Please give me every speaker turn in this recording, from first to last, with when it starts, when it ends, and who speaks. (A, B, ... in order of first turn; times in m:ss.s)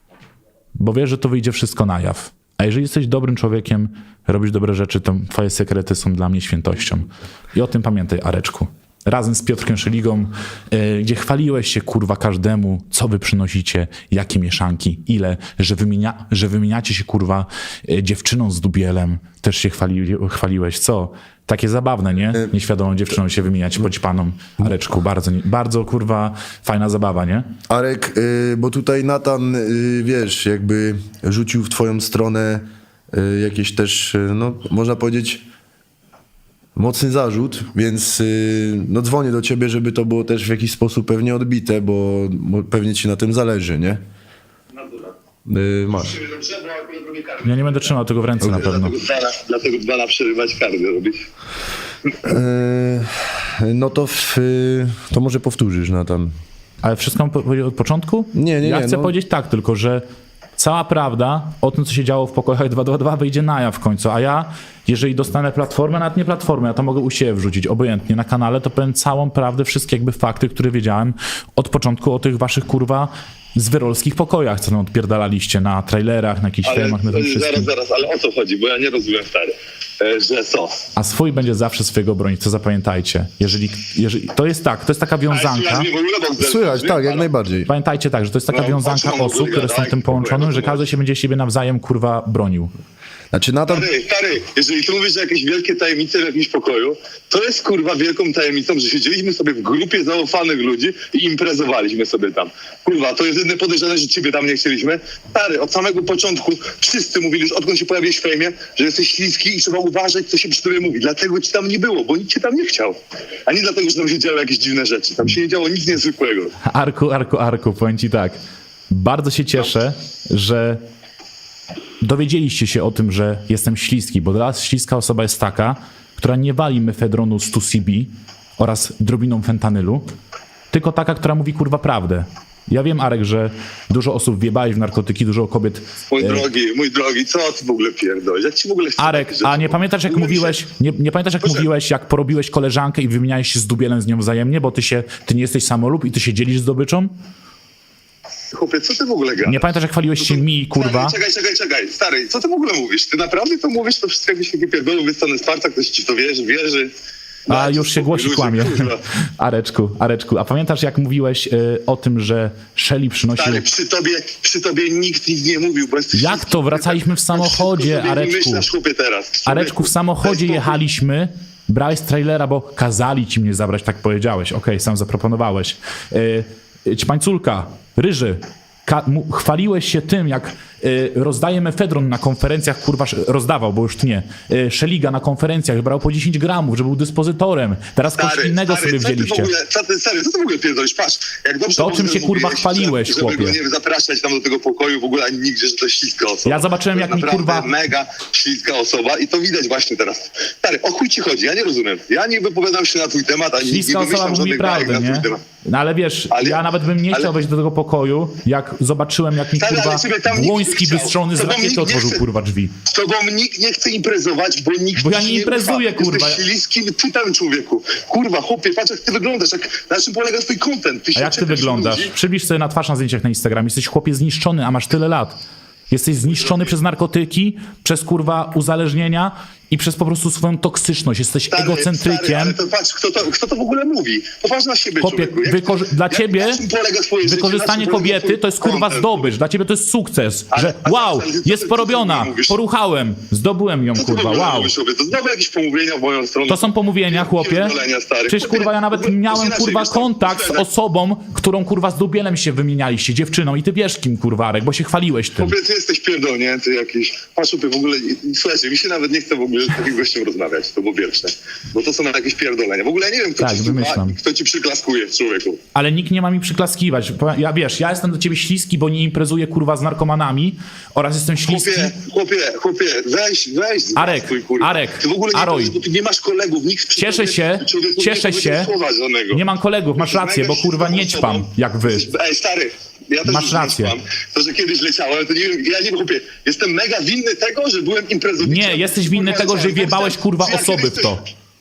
0:00.7-0:27.4 A
0:27.7-0:35.4 B
0:36.8-0:44.0 B
0:45.4-0:46.2 B
0:46.2-0:47.4 C
0:47.4-0:49.0 A
0:48.4-0:48.7 B
0:48.4-0:51.2 C
0:52.2-0:56.3 B
0:56.8-1:00.0 A
0:58.3-0:59.1 B
1:00.6-1:17.7 A
1:16.6-1:20.8 C
1:20.9-1:25.9 A
1:25.3-1:27.3 C
1:26.4-1:27.7 B
1:27.7-1:32.7 A
1:28.5-1:30.8 C
1:33.3-1:33.9 B
1:33.7-1:56.5 C
1:56.6-1:58.4 A
1:58.9-2:00.8 A
2:02.0-2:10.0 A
2:10.7-2:16.4 A
2:16.1-2:20.6 C
2:19.0-2:27.1 A
2:21.4-2:21.7 C
2:28.5-2:36.9 C
2:29.4-2:31.1 A
2:37.5-2:39.0 C
2:37.5-2:43.6 A
2:43.4-2:50.8 C
2:46.1-2:48.7 A
2:49.4-3:09.5 A
3:08.1-3:25.4 C
3:11.8-3:13.6 A
3:16.4-3:17.7 A
3:23.6-3:32.8 A
3:26.3-3:27.3 C
3:29.5-3:32.2 C
3:32.9-3:42.1 C
3:35.0-3:36.4 A
3:41.2-3:45.4 A
3:45.9-3:52.6 A
3:46.2-3:46.8 C
3:51.5-3:59.3 C
3:55.0-3:56.6 A
3:57.2-4:04.7 A
4:00.5-4:02.6 C
4:04.0-4:10.6 C
4:06.5-4:07.7 A
4:08.2-4:15.5 A
4:15.4-4:25.6 C
4:23.4-4:24.2 A
4:25.7-4:31.9 A
4:31.5-4:39.4 C
4:33.9-4:35.8 A
4:37.0-4:38.7 A
4:39.3-4:42.1 A
4:40.0-4:51.2 C
4:43.2-4:43.9 A
4:48.4-4:51.2 A